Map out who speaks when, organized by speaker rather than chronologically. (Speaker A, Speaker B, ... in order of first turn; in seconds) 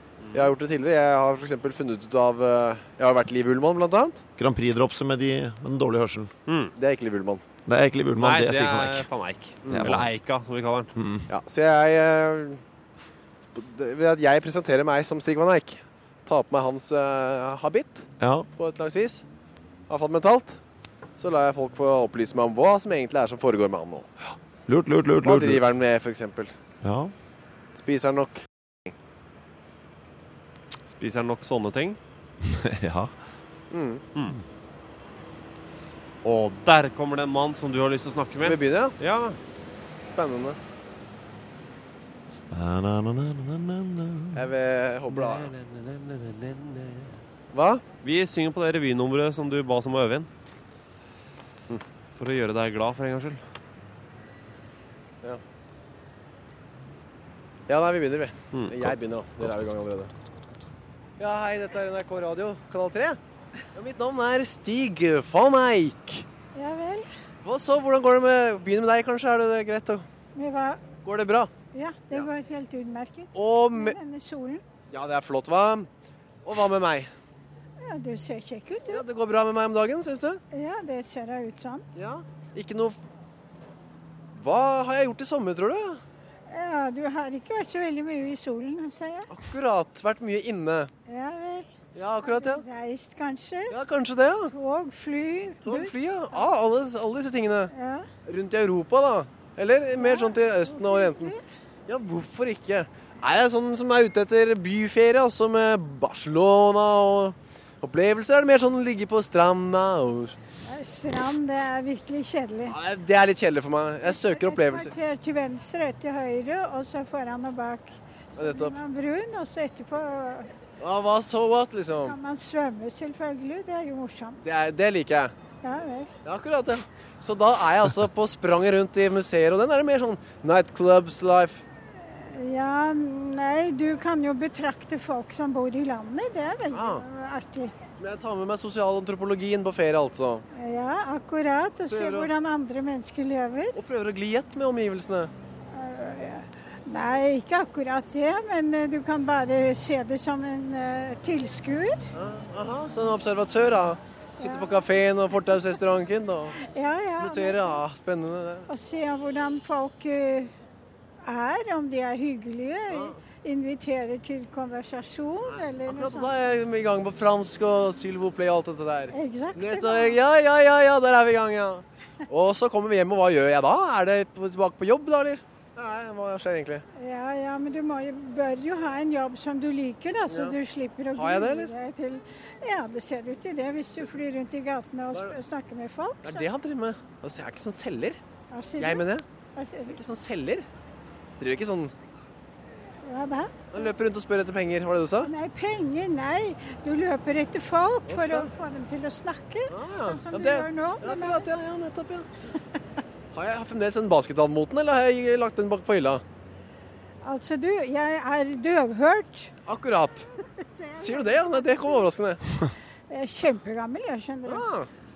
Speaker A: 0.2-0.6, 6.5-6.8, 8.2-10.9, 30.9-32.0, 36.2-39.4, 45.1-47.2, 48.0-50.3, 52.1-53.4, 58.5-58.8
Speaker B: 0.3-4.2, 6.8-7.4, 9.7-10.0, 11.3-12.6, 13.6-19.2, 19.9-20.6, 21.2-24.1, 25.2-26.5, 27.8-28.9, 33.7-34.0, 38.4-39.0, 40.0-40.6, 44.3-45.5, 47.5-47.8, 57.7-60.1, 61.2-63.2, 63.8-66.3, 67.4-70.1, 71.0-71.5, 73.3-74.0, 74.9-75.9, 76.5-77.1, 78.9-80.4, 82.0-83.0, 84.3-86.0, 89.3-90.9, 92.0-92.7, 93.7-94.5, 95.6-97.7, 98.3-101.3, 101.9-110.4, 112.7-114.9, 118.4-118.8, 120.8-122.2, 124.4-125.3, 126.2-131.6, 136.7-137.0, 138.0-140.4, 141.9-142.3, 143.8-145.3, 152.2-156.6, 157.2-158.7, 162.9-163.2, 165.5-176.8, 180.3-180.6, 181.1-181.7, 186.2-188.2, 188.8-189.2, 189.9-190.7, 191.4-191.9, 193.7-195.3, 198.1-198.5, 199.7-202.3, 203.3-206.2, 209.7-210.3, 211.0-212.4, 214.5-214.9
Speaker C: 4.4-6.3, 7.7-9.1, 9.7-10.1, 10.9-11.3, 18.2-18.5, 24.7-25.7, 26.8-27.1, 32.4-33.1, 42.3-44.5
Speaker D: 66.5-67.1, 70.3-70.9, 71.7-74.6, 77.8-79.1, 80.5-81.9, 86.5-89.3, 91.1-93.8, 94.5-96.5, 97.7-98.1, 100.0-101.4, 110.7-112.8, 114.0-120.5, 122.0-124.4, 125.6-126.1, 132.0-137.8, 140.5-143.8, 145.7-152.0, 154.4-154.9, 156.6-157.8, 158.7-160.5, 161.2-166.3, 169.1-170.2, 177.0-186.5, 188.5-190.0, 193.0-193.8, 195.2-201.5, 207.2-209.5, 210.6-212.1, 213.1-214.7